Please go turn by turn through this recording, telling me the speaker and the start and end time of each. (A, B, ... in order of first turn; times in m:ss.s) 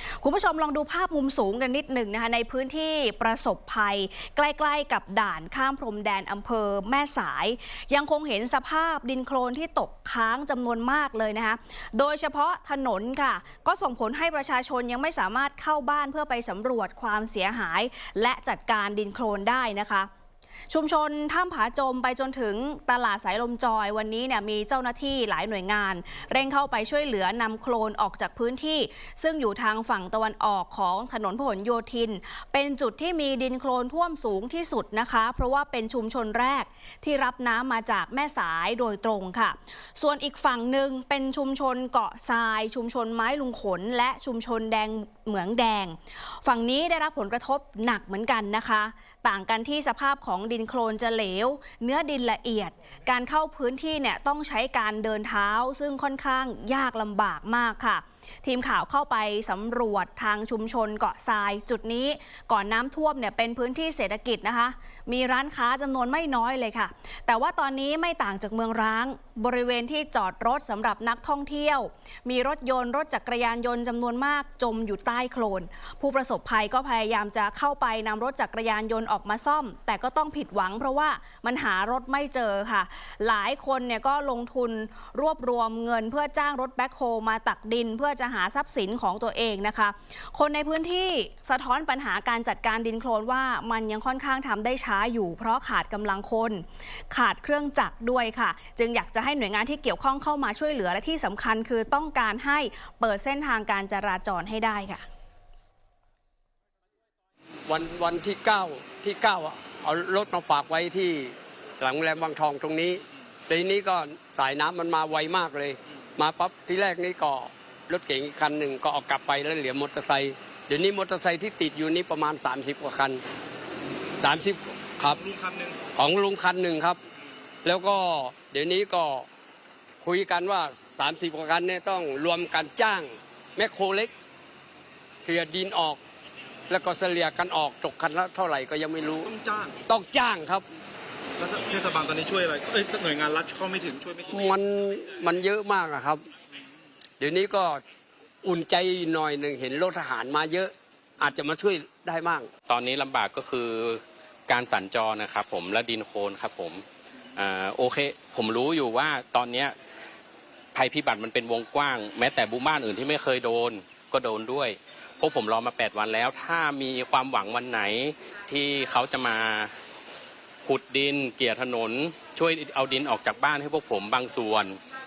0:00.2-0:20.1 A
0:20.7-1:45.0 A
1:47.7-2:03.2 B
2:04.2-2:05.2 B
2:05.3-2:05.8 C
2:05.9-2:07.0 B
2:07.6-2:09.2 B
2:10.0-2:14.1 B
2:15.2-2:16.0 B
2:16.7-2:19.3 B
2:19.4-2:19.8 C
2:19.9-2:20.6 B
2:21.4-2:24.3 C
2:24.3-2:26.2 B
2:27.2-2:27.8 B
2:28.4-2:32.5 B
2:32.7-2:36.8 D
2:37.4-2:39.7 D
2:40.7-2:49.7 D
2:50.6-2:54.8 D